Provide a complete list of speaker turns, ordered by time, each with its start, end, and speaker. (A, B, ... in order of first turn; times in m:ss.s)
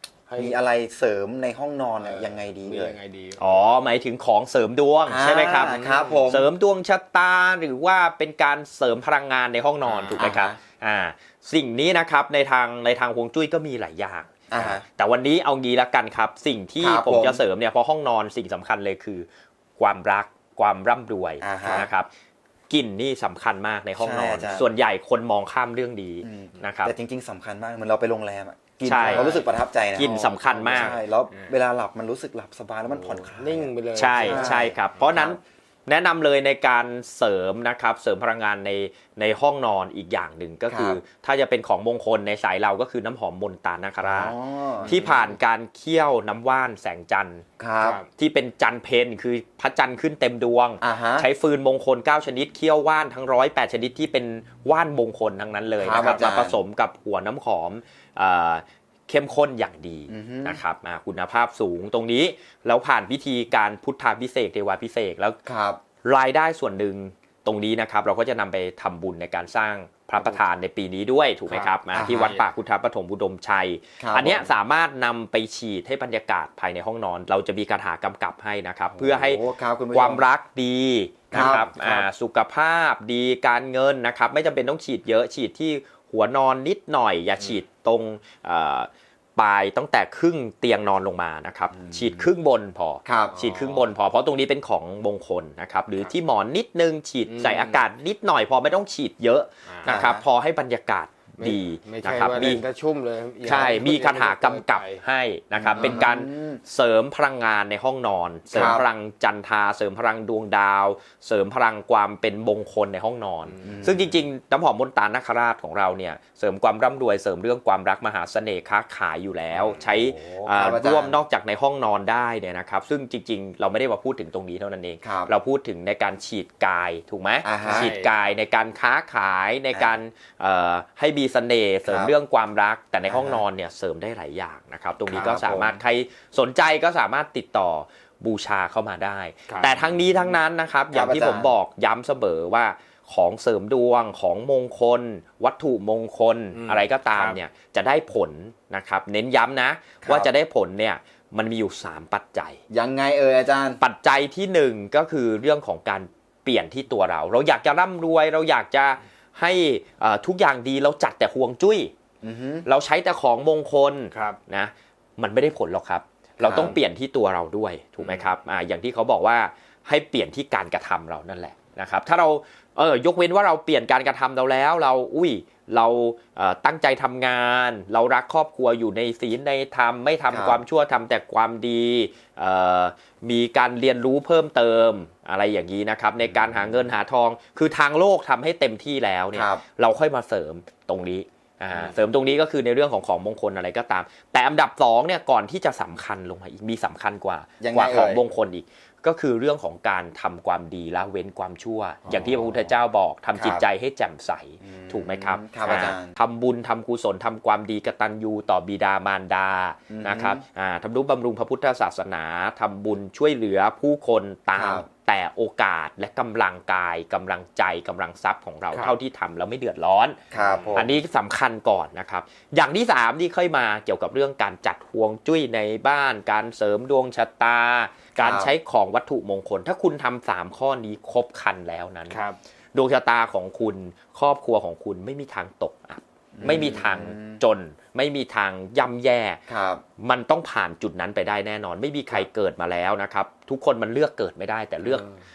0:00.3-0:00.6 A
0:00.4-0:03.0 B
0:02.0-0:03.6 A
0:03.4-0:05.7 C
0:05.1-0:06.5 B
0:05.6-0:06.3 A
0:06.3-0:19.3 C
0:09.8-0:10.2 A
0:10.1-0:10.6 B
0:14.5-0:14.8 B
0:16.8-0:17.4 B
0:19.8-0:22.1 C
0:21.4-0:21.9 B
0:22.7-0:26.9 C
0:24.0-0:24.7 B
0:26.2-0:35.4 B
0:28.8-0:29.4 C
0:29.0-0:31.5 A
0:30.0-0:31.0 C
0:32.9-0:35.0 A
0:33.9-0:44.3 C
0:40.7-0:41.0 B
0:44.0-0:45.3 B
0:44.8-0:45.1 A
0:44.8-0:47.4 C
0:47.6-0:48.0 B
0:47.8-0:48.1 A
0:48.2-1:05.4 C
0:50.8-0:51.3 B
0:55.8-0:56.6 B
0:55.9-0:56.2 A
1:00.1-1:00.6 B
1:05.4-1:05.8 B
1:06.0-1:19.4 C
1:11.5-1:12.4 B
1:11.9-1:12.4 A
1:14.0-1:14.5 B
1:18.9-1:20.2 B
1:19.9-1:42.6 C
1:21.3-1:21.7 B
1:21.4-1:22.1 A
1:31.7-1:32.2 B
1:33.0-1:33.3 B
1:33.3-1:33.9 A
1:37.3-1:37.8 A
1:39.6-1:40.0 A
1:39.8-1:40.2 B
1:41.4-1:45.0 A
1:43.4-2:32.6 C
1:45.6-1:46.1 A
1:45.7-1:46.6 B
1:48.5-1:48.8 B
1:53.5-1:53.8 A
1:53.6-1:54.0 B
1:59.5-2:01.2 B
2:05.0-2:05.3 B
2:07.4-2:07.9 B
2:07.6-2:08.3 A
2:11.9-2:12.1 B
2:13.1-2:13.4 B
2:15.1-2:15.8 B
2:19.5-2:19.8 A
2:20.9-2:21.5 B
2:26.5-2:27.4 A
2:30.0-2:30.3 B
2:32.7-2:33.8 B
2:33.8-2:41.9 C
2:42.2-2:42.6 B
2:42.6-3:40.2 C
2:44.1-2:44.4 A
2:46.4-2:46.8 B
3:00.3-3:00.6 B
3:09.3-3:09.6 B
3:17.6-3:18.2 B
3:22.2-3:22.7 B
3:23.3-3:23.6 B
3:24.6-3:26.1 B
3:29.9-3:30.4 B
3:34.6-3:34.8 B
3:40.3-3:40.9 B
3:40.3-3:40.8 A
3:40.7-3:52.2 C
3:48.2-3:48.5 B
3:52.1-3:52.4 A
3:52.7-3:59.4 C
3:56.3-3:57.4 B
3:59.5-3:59.8 B
4:00.0-4:05.1 C